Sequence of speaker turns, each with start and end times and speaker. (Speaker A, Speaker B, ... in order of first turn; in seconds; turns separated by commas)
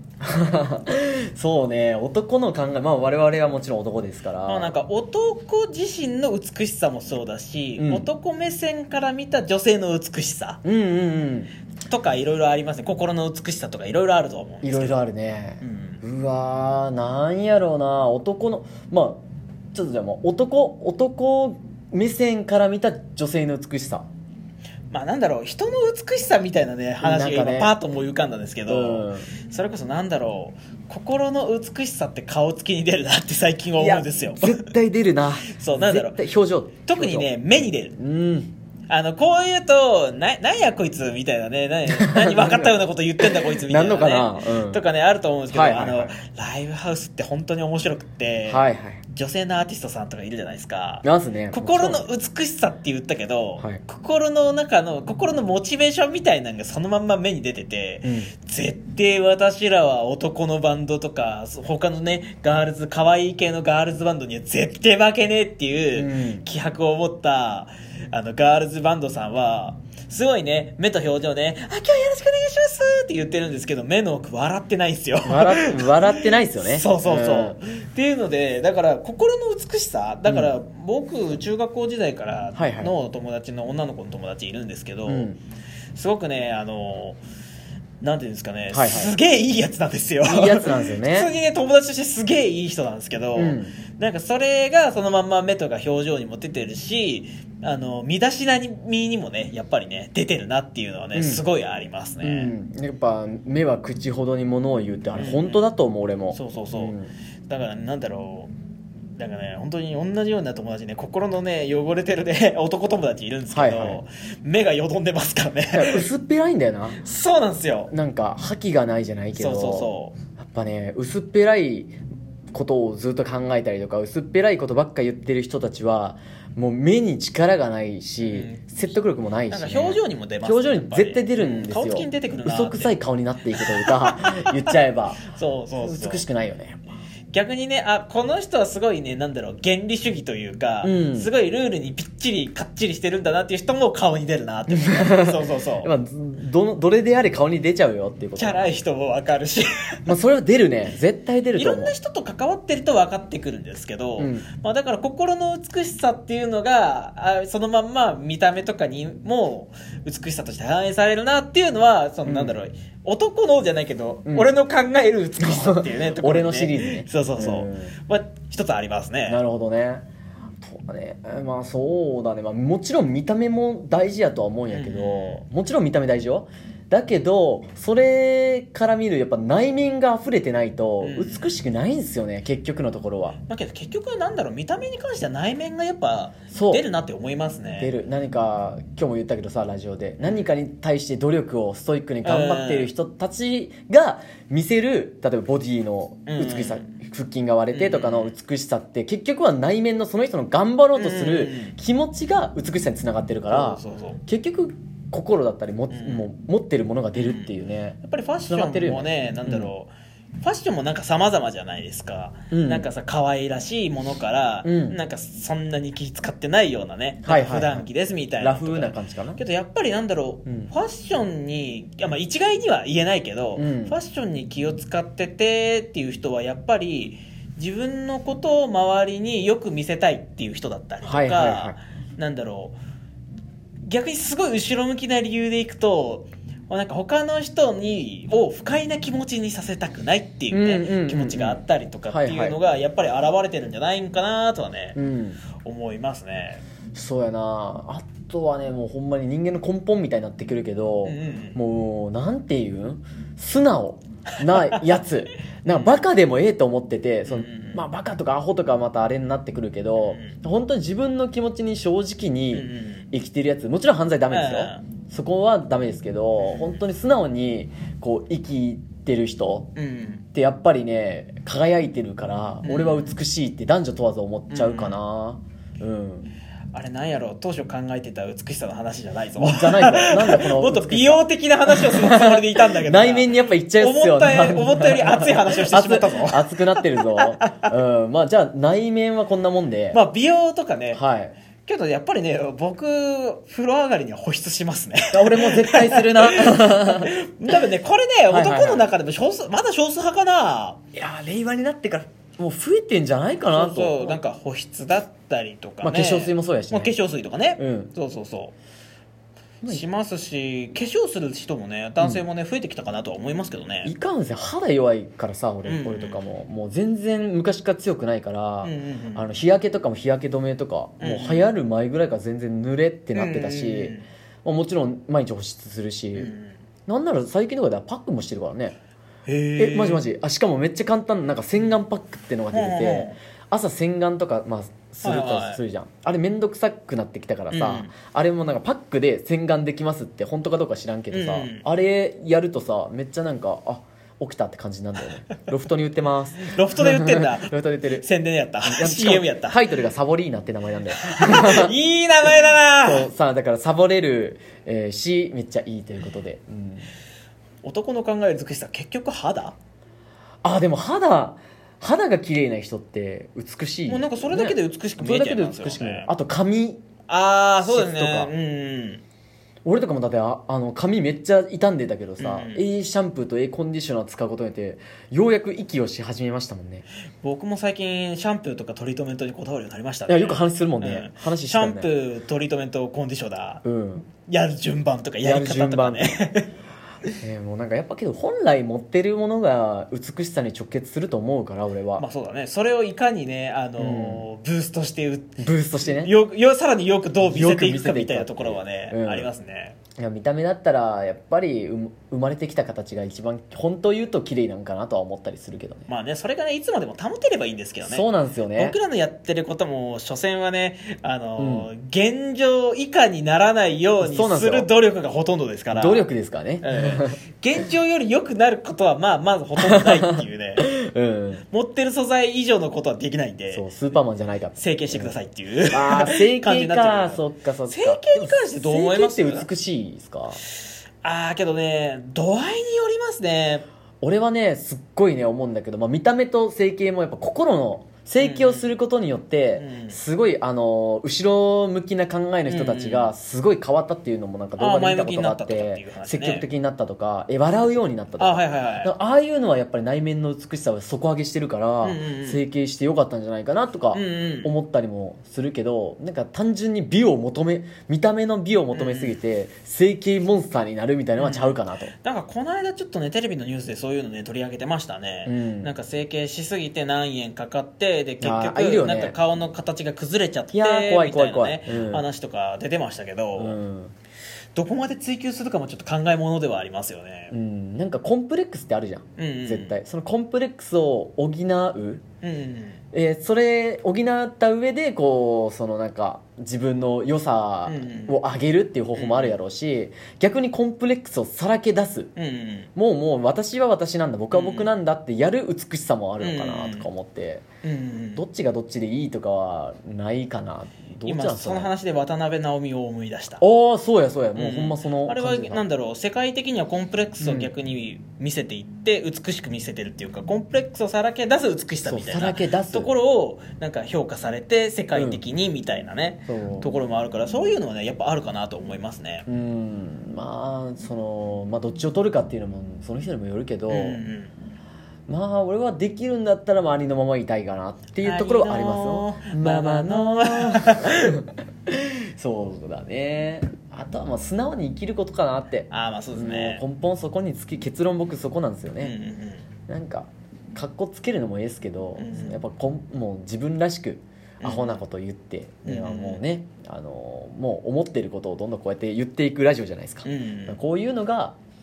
Speaker A: 0.2-4.7, Speaker B: 4.4-10.6, Speaker A: 7.8-8.1, Speaker A: 10.6-11.5, Speaker B: 11.8-15.0, Speaker A: 14.6-24.1, Speaker B: 15.6-16.0, Speaker B: 24.9-34.7, Speaker A: 27.0-27.7, Speaker A: 28.7-29.3, Speaker A: 33.8-37.3, Speaker B: 35.5-36.2, Speaker B: 36.8-38.0, Speaker A: 38.0-38.5, Speaker B: 38.9-85.3, Speaker A: 41.9-44.8, Speaker A: 45.5-46.1, Speaker A: 48.5-49.0, Speaker A: 51.0-52.1, Speaker A: 58.0-58.3, Speaker A: 65.9-66.5, Speaker A: 75.2-77.6, Speaker A: 80.2-80.5, Speaker A: 82.5-82.9, Speaker A: 85.0-85.4, Speaker B: 85.9-87.2, Speaker B: 88.0-102.5, Speaker A: 88.7-89.2, Speaker A: 90.2-91.3, Speaker A: 93.3-93.8, Speaker A: 101.1-101.4, Speaker A: 102.2-107.1, Speaker B: 105.2-105.6, Speaker B: 106.3-107.0, Speaker B: 107.5-108.5, Speaker B: 109.2-116.0, Speaker A: 113.5-114.0, Speaker A: 115.7-117.0, Speaker B: 117.0-117.9, Speaker A: 117.9-121.9, Speaker B: 119.3-120.1, Speaker A: 122.5-135.2, Speaker B: 128.2-128.6, Speaker B: 129.5-133.0, Speaker B: 133.6-134.7, Speaker B: 135.3-136.2, Speaker A: 135.8-136.9, Speaker B: 137.3-145.9, Speaker A: 140.8-141.3, Speaker A: 144.7-148.7, Speaker B: 148.3-149.7, Speaker A: 150.1-151.9, Speaker B: 151.5-169.4, Speaker A: 154.2-154.5, Speaker A: 162.3-162.6, Speaker A: 164.2-164.5, Speaker A: 165.4-167.9, Speaker A: 169.3-170.1, Speaker A: 170.6-183.4, Speaker B: 174.7-175.4, Speaker B: 181.0-181.5, Speaker B: 183.4-187.9, Speaker A: 186.5-186.8, Speaker A: 187.8-209.7, Speaker B: 190.2-190.5, Speaker B: 192.2-192.9, Speaker B: 196.3-196.9, Speaker B: 197.7-198.3, Speaker B: 200.9-201.8, Speaker B: 203.5-204.2, Speaker B: 205.9-206.2, Speaker B: 207.2-207.5, Speaker B: 208.0-232.8, Speaker A: 212.5-212.9, Speaker A: 214.6-215.0, Speaker A: 217.2-217.8, Speaker A: 218.4-219.4, Speaker A: 220.4-220.7, Speaker A: 223.6-224.0, Speaker A: 231.0-231.8, Speaker B: 233.8-245.0, Speaker A: 240.5-242.6, Speaker A: 244.9-245.4, Speaker B: 245.6-246.6, Speaker A: 246.9-269.7, Speaker B: 251.0-251.6, Speaker B: 254.5-254.8, Speaker B: 257.3-257.8, Speaker B: 260.0-260.4, Speaker B: 262.5-263.1, Speaker B: 264.3-264.8, Speaker B: 266.4-266.8, Speaker B: 269.8-270.2, Speaker A: 270.3-276.3, Speaker B: 272.6-273.1, Speaker B: 274.5-274.9, Speaker B: 276.7-287.7, Speaker A: 279.4-290.0, Speaker B: 289.9-291.0, Speaker A: 290.9-291.3, Speaker B: 291.6-300.8, Speaker A: 295.1-297.1, Speaker A: 298.3-298.9, Speaker A: 300.9-304.2, Speaker B: 303.5-308.5, Speaker A: 305.8-306.9, Speaker A: 307.6-307.9, Speaker B: 309.6-313.9, Speaker A: 313.8-326.3, Speaker B: 315.6-316.2, Speaker B: 318.6-319.3, Speaker B: 321.0-321.5, Speaker B: 323.1-324.0, Speaker B: 326.1-326.6, Speaker A: 326.9-328.8, Speaker B: 329.3-330.0, Speaker A: 329.6-348.1, Speaker B: 332.5-333.2, Speaker B: 335.0-335.6, Speaker B: 337.5-337.9, Speaker B: 341.1-341.6, Speaker B: 346.4-349.6, Speaker A: 348.6-351.8, Speaker B: 351.0-353.1, Speaker A: 352.8-356.9, Speaker B: 357.6-359.6, Speaker A: 360.4-366.8, Speaker B: 363.9-366.1, Speaker B: 367.1-369.0, Speaker A: 367.6-368.3, Speaker A: 369.6-376.8, Speaker B: 372.2-372.6, Speaker B: 377.2-383.6, Speaker A: 380.1-381.9, Speaker A: 383.6-384.1, Speaker B: 384.2-386.5, Speaker A: 385.2-386.1, Speaker A: 387.2-392.0, Speaker B: 392.0-399.8, Speaker A: 393.8-394.3, Speaker A: 395.4-396.1, Speaker A: 397.2-399.3, Speaker A: 400.0-405.9, Speaker B: 405.9-416.1, Speaker A: 407.8-408.8, Speaker A: 411.4-411.7, Speaker A: 414.0-414.7, Speaker A: 415.7-417.2, Speaker B: 416.6-420.7, Speaker A: 419.6-421.4, Speaker B: 421.5-423.7, Speaker A: 423.5-425.1, Speaker B: 424.6-429.5, Speaker A: 425.7-430.4, Speaker B: 431.0-433.6, Speaker A: 434.0-461.9, Speaker B: 438.2-438.7, Speaker B: 439.6-440.0, Speaker B: 442.4-443.1, Speaker B: 444.6-446.5, Speaker B: 448.2-448.9, Speaker B: 451.8-452.4, Speaker B: 453.9-454.5, Speaker B: 458.7-459.2, Speaker B: 461.2-473.6, Speaker A: 465.2-465.7, Speaker A: 468.2-469.1, Speaker A: 470.5-472.0, Speaker A: 473.4-473.9, Speaker B: 474.5-477.3, Speaker A: 477.3-482.0, Speaker B: 479.2-479.7, Speaker B: 482.2-482.8, Speaker A: 482.9-492.1, Speaker B: 487.6-488.2, Speaker B: 488.9-489.3, Speaker B: 492.1-492.7, Speaker A: 492.8-497.4, Speaker B: 494.3-494.7, Speaker B: 496.2-496.9, Speaker B: 497.6-498.2, Speaker A: 498.1-501.7, Speaker B: 501.0-503.4, Speaker A: 503.4-505.6, Speaker B: 504.4-519.2, Speaker A: 507.2-507.5, Speaker A: 511.8-512.9, Speaker A: 514.9-515.2, Speaker A: 516.3-516.7, Speaker A: 519.2-524.0, Speaker B: 523.7-524.3, Speaker A: 525.1-538.9, Speaker B: 528.0-531.2, Speaker B: 535.7-536.6, Speaker B: 538.8-539.4, Speaker A: 539.7-551.4, Speaker B: 542.0-542.4, Speaker B: 544.4-544.8, Speaker B: 545.6-546.2, Speaker B: 550.0-550.6